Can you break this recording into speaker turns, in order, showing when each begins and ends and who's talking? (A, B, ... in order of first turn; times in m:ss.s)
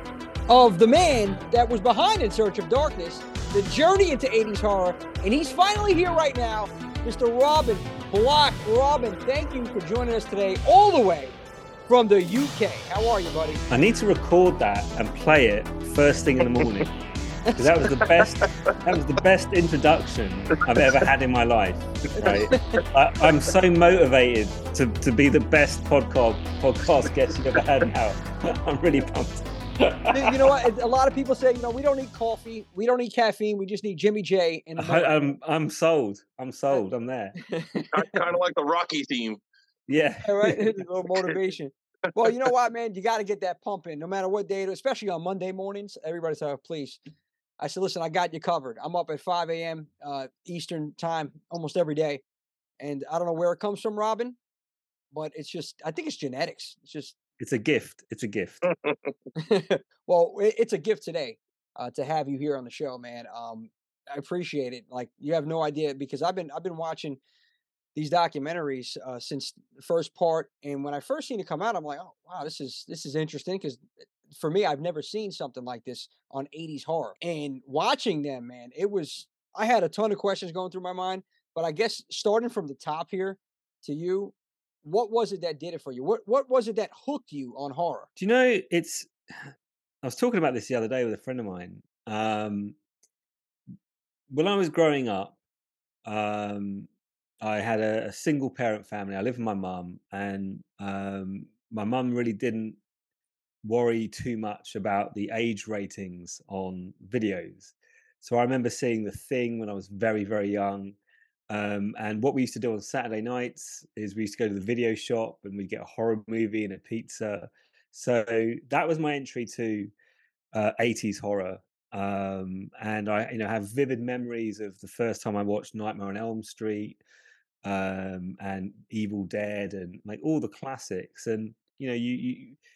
0:00.5-0:11.3 A
0:11.9-0:13.6 A
0:13.7-0:16.9 B
0:16.4-0:16.8 C
0:17.6-0:30.6 B
0:17.8-0:18.5 C
0:22.2-0:22.8 A
0:22.2-0:23.4 C
0:30.1-0:35.2 A
0:34.8-0:37.3 B
0:37.4-0:38.2 A
0:37.9-0:39.4 C
0:39.9-0:40.8 B
0:40.2-0:47.0 A
0:47.6-0:52.2 A
0:52.8-0:54.4 A
0:55.1-0:57.1 A
0:57.4-0:58.6 B
0:58.6-0:59.1 C
0:59.4-1:07.2 A
1:07.9-1:28.1 A
1:28.2-1:32.8 B
1:34.3-1:35.4 B
1:36.0-1:36.9 B
1:37.4-1:42.8 B
1:43.6-1:51.0 B
1:51.5-1:59.9 B
2:00.5-2:07.0 B
2:07.6-2:12.6 B